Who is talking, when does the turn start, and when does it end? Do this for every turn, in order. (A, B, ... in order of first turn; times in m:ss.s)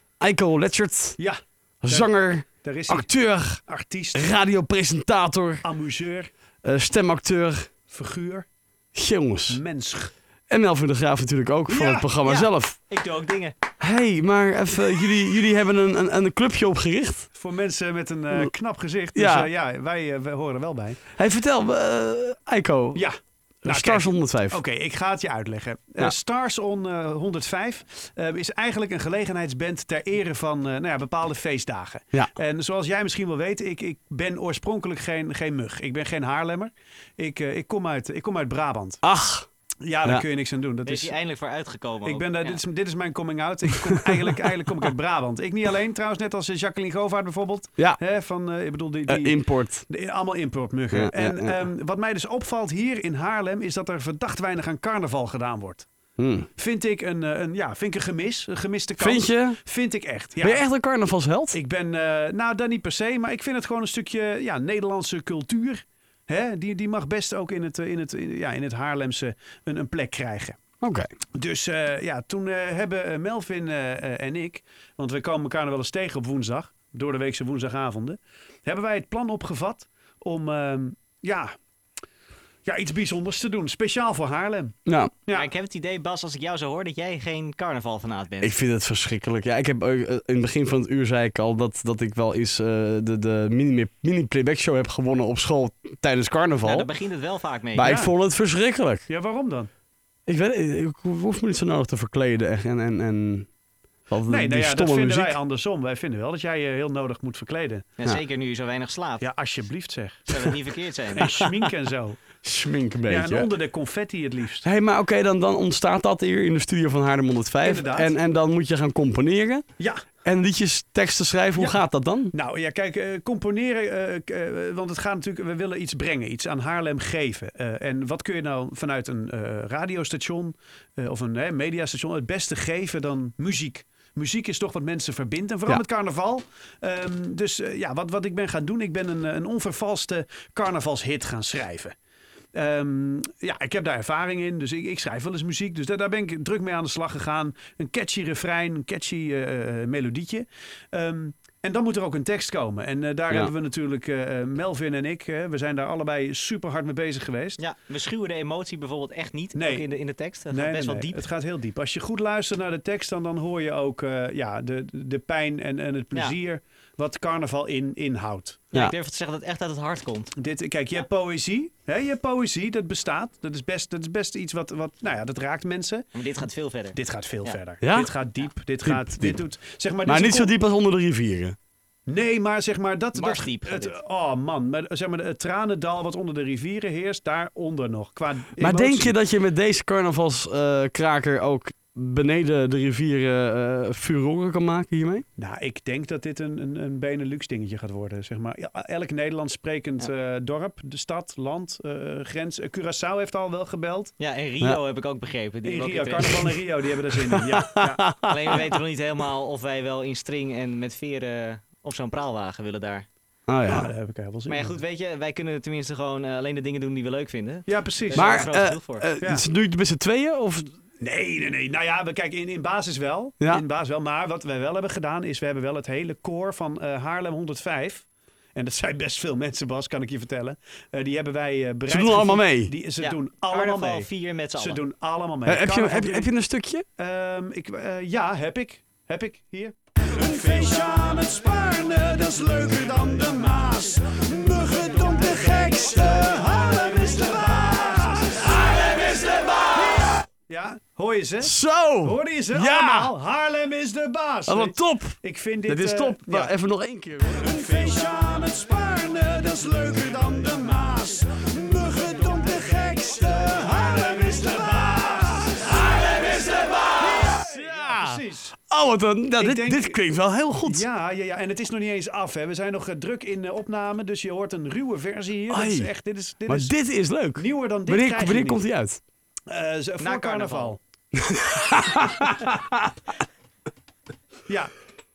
0:00.2-0:01.2 A
0:01.2-0:02.1 B
0:01.8-0:03.6 A
0:02.6-0:03.1 B
0:03.6-0:04.3 B
0:04.1-0:05.6 A
0:05.6-0:06.3 B
0:06.6-0:07.7 A
0:07.9-0:08.4 B
0:08.9-0:09.6 A
0:09.5-0:10.1 B
0:10.5-0:12.8 A
0:11.7-0:12.2 B
0:12.2-0:13.6 C
0:13.8-0:17.3 A
0:17.3-0:21.0 B
0:19.1-0:19.5 A
0:21.2-0:23.0 A
0:22.9-0:39.0 B
0:23.6-0:24.6 A
0:39.0-0:39.5 A
0:39.8-0:41.1 B
0:40.8-0:42.6 C
0:42.0-0:55.9 B
0:49.1-0:49.8 A
0:50.9-0:51.6 A
0:56.2-0:56.5 A
0:56.6-1:00.6 B
0:59.0-0:59.6 A
1:00.4-1:01.6 A
1:01.5-1:10.6 B
1:10.8-1:11.1 A
1:11.3-1:21.5 B
1:22.6-1:25.5 B
1:24.8-1:25.1 A
1:25.3-1:28.6 C
1:28.4-1:36.9 A
1:36.6-1:37.9 C
1:37.7-1:39.0 A
1:37.8-1:38.1 B
1:39.1-1:39.7 B
1:40.3-1:43.5 A
1:44.1-1:45.4 A
1:44.3-1:47.9 B
1:48.0-1:49.3 C
1:49.2-1:50.6 B
1:50.3-1:51.4 C
1:51.2-1:52.2 B
1:52.4-1:53.5 A
1:53.1-1:54.6 B
1:54.6-1:59.6 A
1:57.6-1:58.1 B
1:59.8-2:00.0 B
2:00.2-2:02.3 A
2:01.6-2:21.9 B
2:22.5-2:37.6 B
2:37.6-2:41.3 C
2:39.5-2:39.9 B
2:40.5-2:48.6 B
2:48.7-2:50.3 C
2:50.4-2:56.1 B
2:56.1-2:57.6 C
2:56.9-3:00.5 B
2:57.8-2:58.1 A
2:58.8-2:59.4 A
3:00.0-3:01.6 A
3:02.1-3:09.2 B
3:03.1-3:04.0 C
3:08.6-3:15.2 A
3:15.4-3:24.1 B
3:24.2-3:26.6 C
3:25.6-3:28.1 B
3:27.3-3:28.6 A
3:28.2-3:33.0 C
3:33.5-3:33.9 A
3:33.7-3:34.8 B
3:34.4-3:39.0 C
3:37.7-3:38.2 B
3:38.1-3:40.7 A
3:39.2-3:39.4 B
3:41.0-3:56.3 B
3:51.9-3:52.7 A
3:53.0-3:54.8 C
3:55.4-3:56.8 A
3:57.0-4:16.5 B
4:11.4-4:13.1 A
4:14.5-4:17.5 A
4:17.4-4:28.6 B
4:27.2-4:30.8 A
4:29.4-4:30.0 B
4:30.6-4:36.7 B
4:35.5-4:35.9 A
4:36.5-4:39.0 A
4:37.3-4:38.6 B
4:39.5-4:40.8 B
4:40.0-4:40.8 C
4:41.2-4:42.6 A